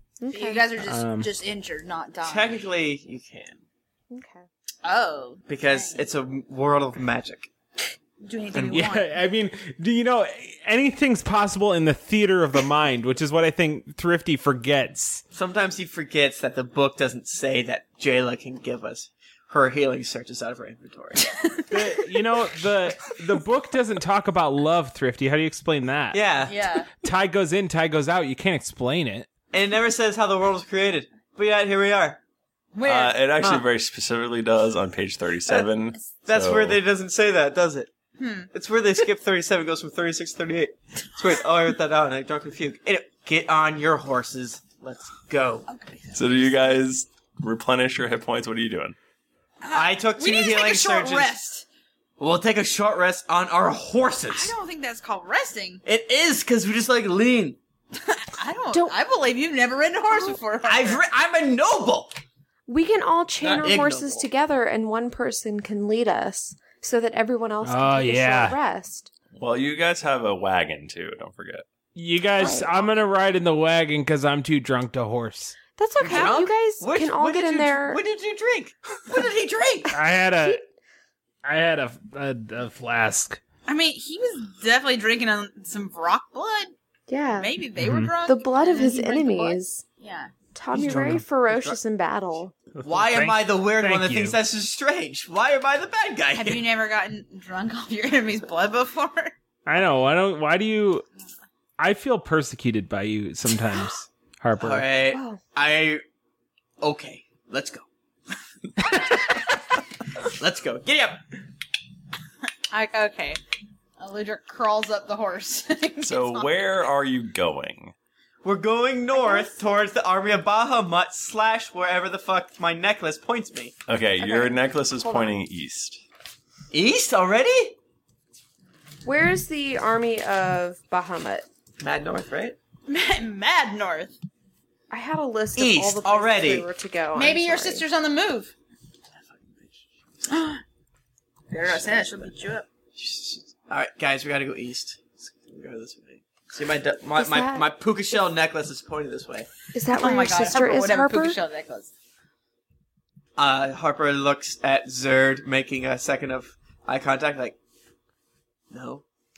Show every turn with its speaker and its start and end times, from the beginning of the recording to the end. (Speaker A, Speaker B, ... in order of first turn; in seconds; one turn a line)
Speaker A: 0.2-0.7
Speaker B: 0.3-2.6
Speaker C: 0.8-1.3
Speaker D: 2.2-3.6
Speaker A: 4.1-4.5
Speaker B: 4.8-6.1
Speaker D: 5.5-7.5
Speaker B: 8.2-9.1
Speaker D: 8.6-8.8
Speaker C: 8.6-15.2
Speaker D: 15.3-21.2
Speaker C: 21.7-26.2
Speaker D: 26.1-26.6
Speaker B: 26.4-26.9
Speaker C: 27.0-29.3
Speaker D: 29.5-32.2
Speaker B: 32.7-33.1
Speaker E: 32.8-36.8
Speaker D: 33.3-33.6
Speaker D: 36.2-37.9
Speaker B: 38.2-38.5
Speaker D: 38.5-45.7
Speaker B: 45.7-46.6
Speaker E: 46.1-49.0
Speaker B: 49.6-51.6
Speaker D: 49.7-51.4
Speaker D: 52.2-54.5
Speaker B: 54.3-55.8
Speaker D: 55.8-57.6
Speaker B: 58.0-61.0
Speaker A: 58.7-59.0
Speaker A: 60.1-60.4
Speaker D: 60.6-62.2
Speaker A: 62.7-69.1
Speaker D: 63.4-64.3
Speaker C: 67.6-68.5
Speaker E: 69.4-71.6
Speaker C: 71.9-75.5
Speaker A: 72.4-72.7
Speaker A: 75.8-78.0
Speaker D: 76.0-79.9
Speaker C: 79.9-80.6
Speaker A: 80.4-80.6
Speaker C: 81.4-83.4
Speaker B: 83.7-86.7
Speaker A: 87.1-87.5
Speaker B: 87.3-90.3
Speaker C: 87.8-88.1
Speaker A: 88.2-89.8
Speaker A: 90.5-92.5
Speaker C: 90.7-91.2
Speaker C: 92.7-94.4
Speaker D: 92.8-96.6
Speaker B: 96.3-99.3
Speaker C: 99.7-101.0
Speaker C: 101.8-104.9
Speaker D: 104.6-106.0
Speaker A: 105.1-105.4
Speaker D: 106.8-107.8
Speaker D: 108.9-109.3
Speaker D: 110.4-111.2
Speaker B: 112.7-113.4
Speaker B: 114.0-116.8
Speaker E: 116.0-117.9
Speaker D: 118.4-123.7
Speaker A: 119.1-119.6
Speaker E: 123.9-126.0
Speaker A: 124.2-125.4
Speaker D: 126.7-127.8
Speaker A: 129.0-131.4
Speaker D: 131.8-132.6
Speaker B: 132.9-134.1
Speaker A: 134.9-137.8
Speaker D: 135.5-136.7
Speaker B: 137.1-138.5
Speaker D: 139.2-139.8
Speaker B: 140.3-140.6
Speaker B: 141.5-142.7
Speaker D: 141.6-149.5
Speaker A: 147.2-147.7
Speaker A: 149.7-151.4
Speaker B: 149.9-151.9
Speaker D: 153.4-157.6
Speaker D: 158.7-159.0